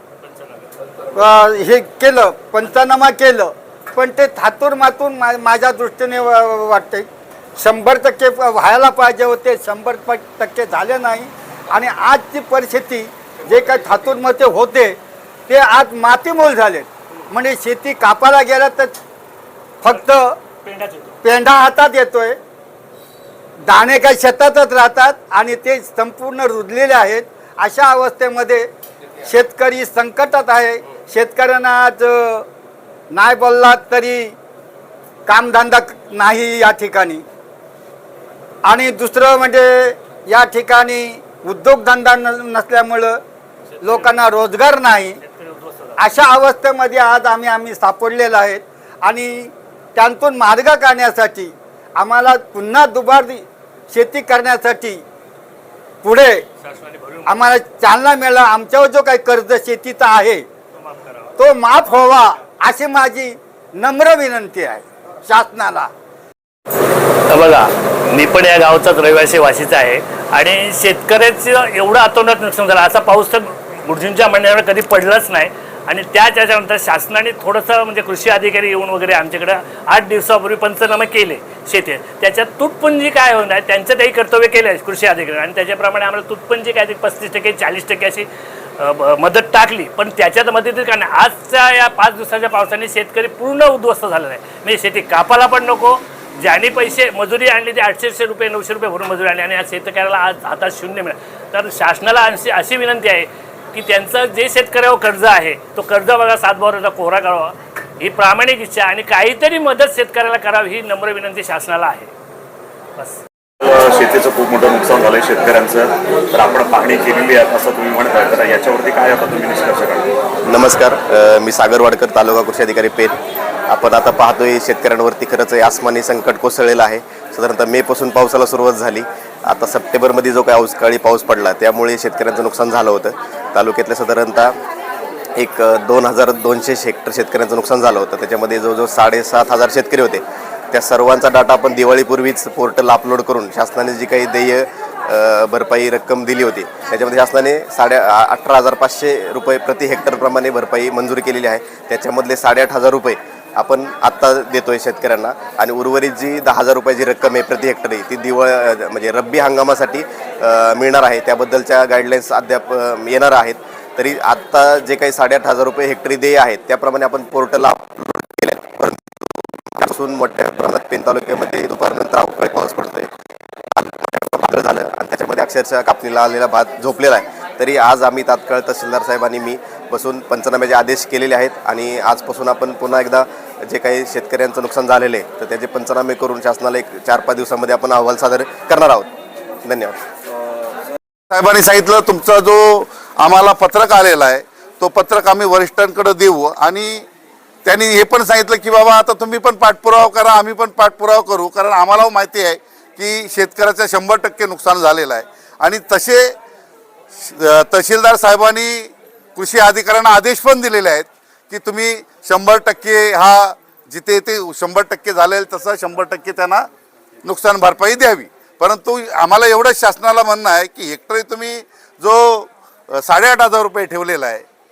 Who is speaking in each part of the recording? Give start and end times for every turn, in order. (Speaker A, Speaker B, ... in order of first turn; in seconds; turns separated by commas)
Speaker A: 0.2-0.9, Speaker B: 1.1-7.1, Speaker B: 7.6-15.0, Speaker B: 15.5-18.9, Speaker B: 19.8-20.3, Speaker A: 20.6-21.2, Speaker B: 21.2-22.4, Speaker B: 23.6-28.7, Speaker B: 29.2-32.5, Speaker B: 33.1-34.4, Speaker B: 35.3-37.2, Speaker B: 38.6-43.2, Speaker A: 43.8-44.1, Speaker B: 43.8-45.2, Speaker A: 45.2-46.0, Speaker B: 46.0-55.0, Speaker B: 56.0-56.4, Speaker A: 56.6-57.5, Speaker B: 57.3-60.5, Speaker A: 60.8-61.3, Speaker B: 61.4-65.9, Speaker A: 67.3-112.1, Speaker C: 113.6-120.1, Speaker D: 120.5-123.2, Speaker D: 123.7-134.6, Speaker D: 135.4-173.1, Speaker D: 173.7-189.1, Speaker D: 189.7-190.0, Speaker E: 191.3-197.1, Speaker E: 197.7-206.3, Speaker E: 207.2-216.6, Speaker E: 217.2-222.5, Speaker E: 223.0-224.4